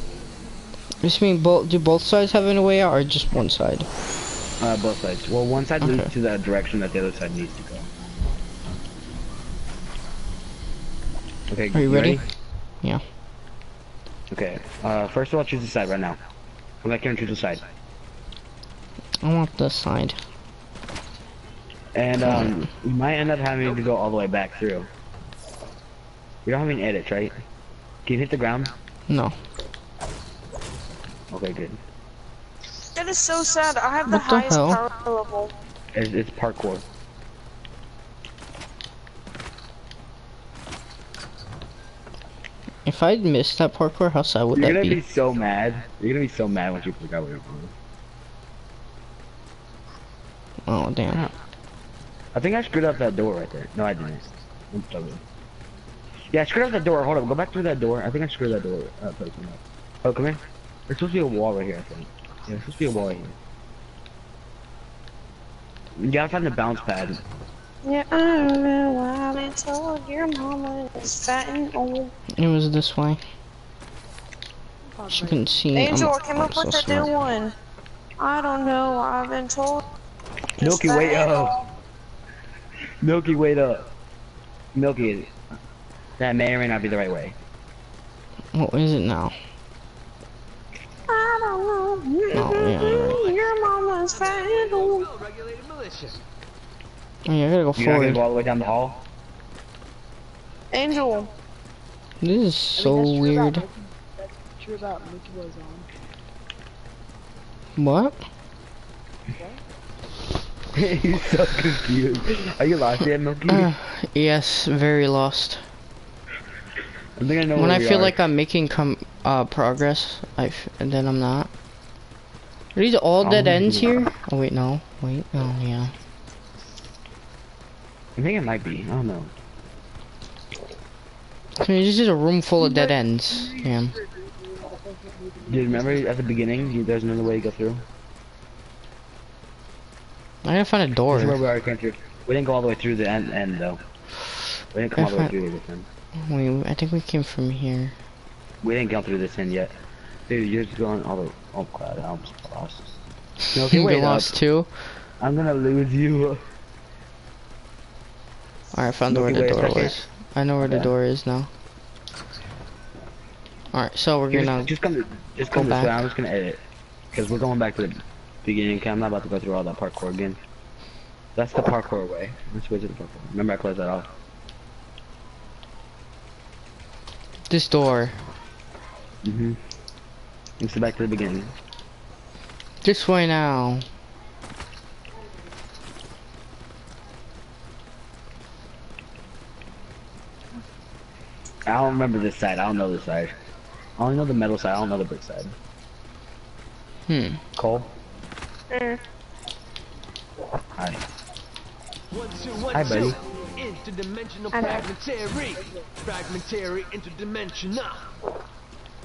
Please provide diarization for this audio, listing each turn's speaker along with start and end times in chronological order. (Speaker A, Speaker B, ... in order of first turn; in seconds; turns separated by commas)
Speaker A: 1.0-3.9, Speaker B: 4.6-7.9, Speaker A: 5.8-6.1, Speaker B: 11.5-12.2, Speaker A: 11.7-12.2, Speaker B: 14.3-16.2, Speaker B: 16.8-17.6, Speaker A: 19.2-20.2, Speaker B: 21.9-24.9, Speaker B: 26.4-27.4, Speaker B: 28.1-28.7, Speaker A: 29.1-29.4, Speaker B: 31.3-31.8, Speaker C: 32.9-35.5, Speaker A: 34.1-34.8, Speaker B: 35.9-36.9, Speaker A: 42.9-45.0, Speaker B: 44.5-47.7, Speaker A: 50.7-51.2, Speaker B: 52.3-55.2, Speaker B: 56.3-63.3, Speaker B: 66.0-67.2, Speaker C: 67.8-72.1, Speaker A: 72.4-73.2, Speaker D: 74.9-75.6, Speaker A: 75.1-77.1, Speaker C: 75.7-77.5, Speaker C: 78.2-79.9, Speaker B: 80.6-81.6, Speaker C: 80.6-81.6, Speaker B: 83.0-83.9, Speaker B: 84.8-85.3, Speaker B: 86.2-87.4, Speaker A: 88.5-89.3, Speaker C: 91.1-95.1, Speaker A: 92.3-93.3, Speaker E: 93.0-93.4, Speaker E: 94.1-96.2, Speaker A: 97.3-98.2, Speaker B: 97.8-99.0, Speaker C: 100.7-101.3, Speaker A: 102.2-103.6, Speaker D: 102.8-105.9, Speaker A: 107.8-108.2, Speaker D: 109.4-109.6, Speaker B: 110.7-113.7, Speaker A: 113.5-115.6, Speaker B: 117.2-118.2, Speaker A: 117.6-121.5, Speaker A: 122.8-125.9, Speaker B: 123.2-124.1, Speaker B: 128.2-129.3, Speaker A: 131.6-133.9, Speaker D: 132.6-136.1, Speaker B: 135.5-137.8, Speaker A: 140.4-141.4, Speaker B: 141.1-143.8, Speaker B: 144.7-145.9, Speaker A: 144.9-145.3, Speaker A: 146.2-147.9, Speaker B: 148.6-149.8, Speaker B: 150.3-152.9, Speaker B: 153.5-154.4, Speaker A: 153.6-155.0, Speaker B: 155.2-156.4, Speaker A: 158.7-161.5, Speaker B: 159.1-160.0, Speaker B: 160.6-160.9, Speaker A: 163.7-164.7, Speaker B: 164.3-166.6, Speaker A: 165.5-166.1, Speaker B: 167.1-170.4, Speaker B: 171.4-174.1, Speaker A: 177.5-178.2, Speaker B: 179.2-179.6, Speaker B: 180.6-181.6, Speaker A: 182.8-183.8, Speaker B: 191.7-193.3, Speaker B: 194.0-195.6, Speaker A: 197.1-197.4, Speaker B: 197.6-197.9, Speaker C: 198.7-199.0, Speaker E: 202.1-208.1, Speaker B: 202.7-203.2, Speaker D: 204.6-204.9